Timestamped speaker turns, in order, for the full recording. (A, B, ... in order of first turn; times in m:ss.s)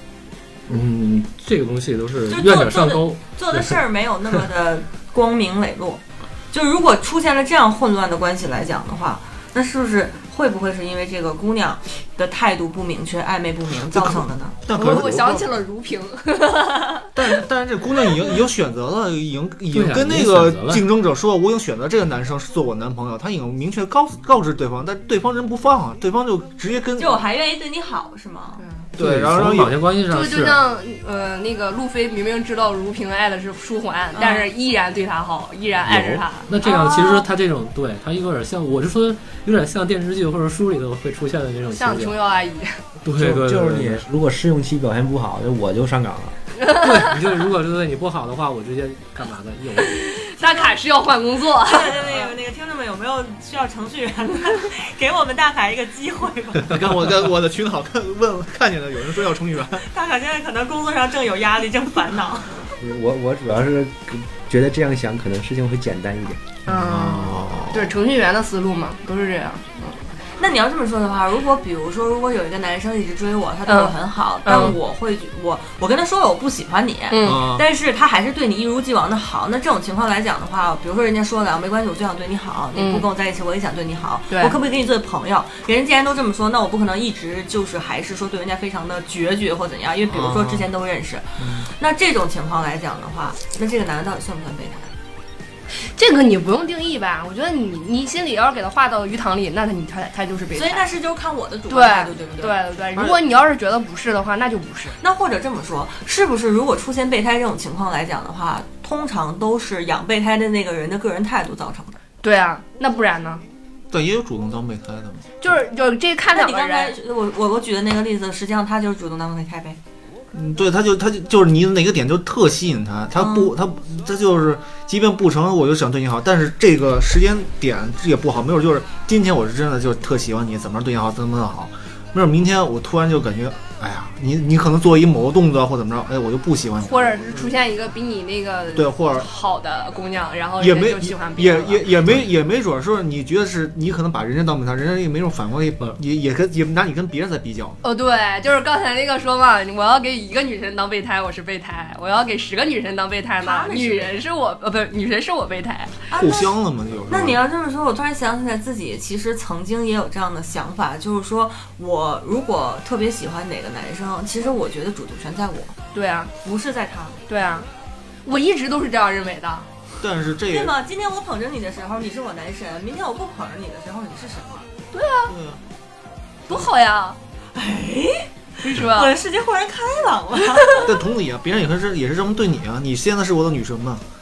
0:00.7-0:03.8 A
0:02.3-0:14.6 B
0:13.9-0:15.5 C
0:14.7-0:17.2 D
0:17.2-0:27.2 C
0:19.7-0:20.8 A
0:27.0-0:28.6 B
0:28.6-0:28.9 D
0:29.0-0:29.8 C
0:29.0-0:30.6 A
0:30.1-0:36.5 D
0:34.1-0:34.5 B
0:35.9-0:42.2 A
0:36.6-0:37.2 B
0:41.8-0:42.8 D
0:43.0-0:44.0 A
0:43.1-0:46.4 E
0:46.8-0:50.1 A
0:49.9-0:52.2 D
0:50.4-0:50.8 B
0:51.6-0:56.8 B
0:56.6-0:59.9 C
0:59.8-1:02.7 B
1:02.8-1:06.5 E
1:06.7-1:07.9 C
1:06.7-1:10.0 D
1:10.4-1:34.9 B
1:13.7-1:13.9 D
1:14.4-1:14.8 D
1:17.1-1:17.5 D
1:17.2-1:17.6 C
1:22.8-1:23.1 D
1:24.3-1:24.6 D
1:30.1-1:30.7 C
1:31.4-1:31.7 C
1:35.8-1:40.9 D
1:40.5-1:43.2 B
1:41.7-1:45.0 D
1:45.0-1:52.0 B
1:52.2-1:53.4 D
1:53.9-1:55.3 C
1:55.4-1:56.9 D
1:56.3-1:59.8 B
2:00.3-2:17.5 C
2:03.2-2:03.5 B
2:16.8-2:21.9 D
2:18.8-2:19.3 C
2:20.6-2:27.8 C
2:27.8-2:36.0 D
2:33.4-2:34.2 B
2:36.1-2:36.6 B
2:36.2-2:37.4 C
2:37.1-2:45.8 B
2:45.9-2:46.3 D
2:46.4-2:47.2 B
2:47.3-2:47.7 D
2:48.2-2:49.7 D
2:50.0-2:50.7 C
2:50.5-2:54.7 B
2:54.9-2:55.3 D
2:55.3-2:55.6 C
2:56.5-2:57.2 D
2:57.5-3:00.9 B
2:58.6-2:59.2 D
3:00.8-3:04.0 C